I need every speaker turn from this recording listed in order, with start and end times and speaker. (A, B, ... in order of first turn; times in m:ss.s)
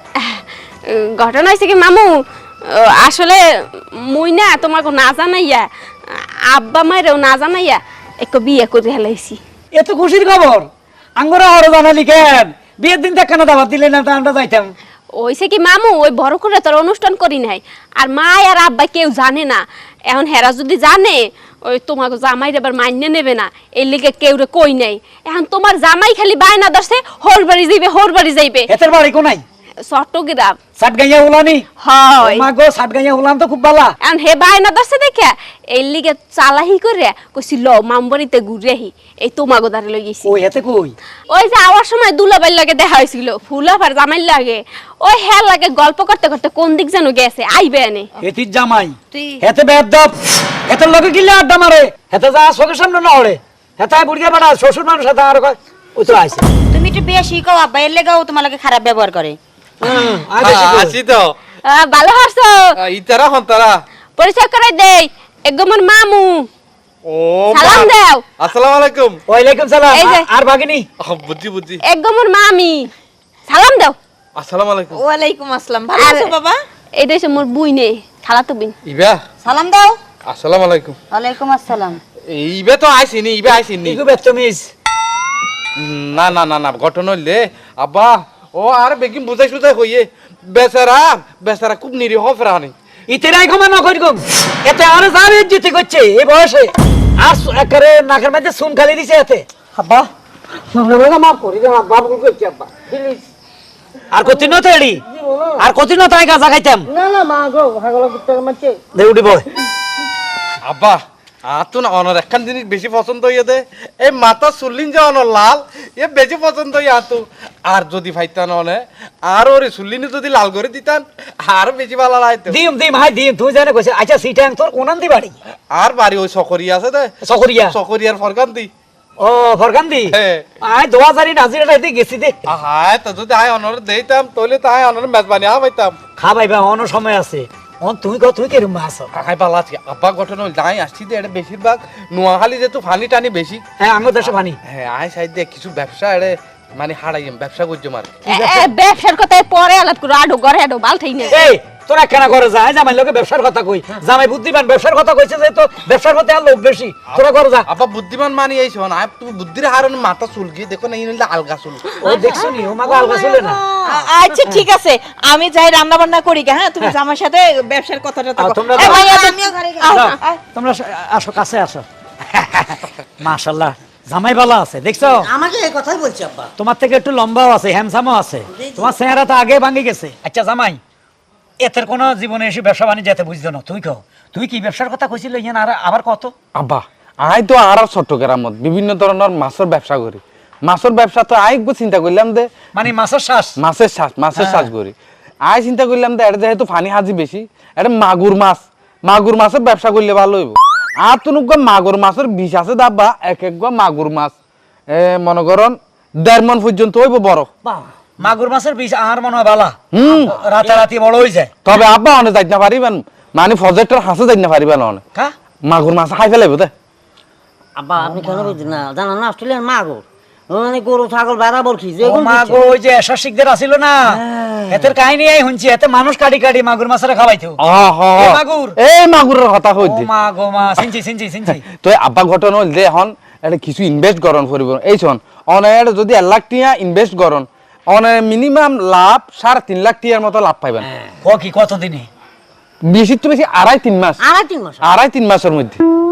0:00.2-0:09.4 A
0:09.7-0:14.7 B
0:15.1-0:28.7 A
0:28.7-0:29.4 B
0:29.8-0:30.6 A
0:30.8-0:31.6 B
0:31.8-0:32.5 A
0:32.2-0:33.9 B
0:34.0-0:40.4 A
0:40.2-0:40.9 B
0:41.3-0:48.1 A
0:48.2-0:50.1 B
0:49.1-0:49.4 C
0:50.7-0:56.4 B
0:56.7-0:59.4 C
0:59.8-1:01.0 B
1:00.4-1:01.3 D
1:01.6-1:02.7 A
1:02.8-1:03.7 D
1:04.2-1:06.5 A
1:07.0-1:09.2 D
1:07.5-1:08.2 A
1:09.3-1:10.9 B
1:09.9-1:10.3 A
1:11.0-1:11.8 D
1:11.8-1:12.9 A
1:13.5-1:14.0 A
1:14.4-1:15.0 D
1:15.0-1:16.6 E
1:16.0-1:16.3 A
1:17.0-1:18.7 A
1:18.8-1:19.2 D
1:19.4-1:19.9 C
1:20.3-1:21.0 D
1:21.1-1:22.0 C
1:22.3-1:24.0 D
1:23.8-1:24.7 B
1:25.8-1:32.7 D
1:33.1-1:39.5 B
1:40.7-1:43.2 F
1:44.1-1:45.0 B
1:45.3-1:45.6 F
1:45.6-1:46.9 B
1:46.9-1:48.8 F
1:48.9-1:49.4 B
1:50.6-2:02.6 D
2:02.5-2:05.4 B
2:05.7-2:07.1 D
2:07.2-2:07.8 B
2:07.7-2:08.7 D
2:09.2-2:12.4 B
2:10.1-2:10.4 D
2:12.5-2:15.9 D
2:16.2-2:19.1 B
2:19.1-2:23.6 D
2:23.8-2:24.6 B
2:24.6-2:28.6 D
2:28.2-2:31.5 A
2:31.3-2:37.7 B
2:37.2-2:42.0 D
2:42.0-2:43.6 B
2:43.4-2:50.4 E
2:48.4-2:49.3 B
2:48.8-2:50.0 C
2:49.9-2:55.3 B
2:55.0-2:56.5 F
2:56.6-3:00.8 B
2:58.6-2:58.9 F
3:01.6-3:06.3 B
3:06.6-3:12.5 D
3:12.7-3:13.6 B
3:13.6-3:24.3 D
3:14.4-3:14.7 B
3:24.9-3:27.5 D
3:28.2-3:31.5 B
3:29.9-3:30.3 D
3:31.6-3:35.0 D
3:35.7-3:36.7 D
3:37.8-3:42.7 F
3:38.0-3:38.6 B
3:42.0-3:44.2 B
3:44.5-3:44.8 D
3:44.7-3:47.6 B
3:47.6-3:50.1 D
3:48.2-3:48.8 B
3:49.8-3:51.6 B
3:51.6-4:00.8 D
4:00.8-4:01.1 F
4:01.2-4:02.1 B
4:02.8-4:04.2 D
4:04.2-4:05.0 F
4:04.8-4:05.8 D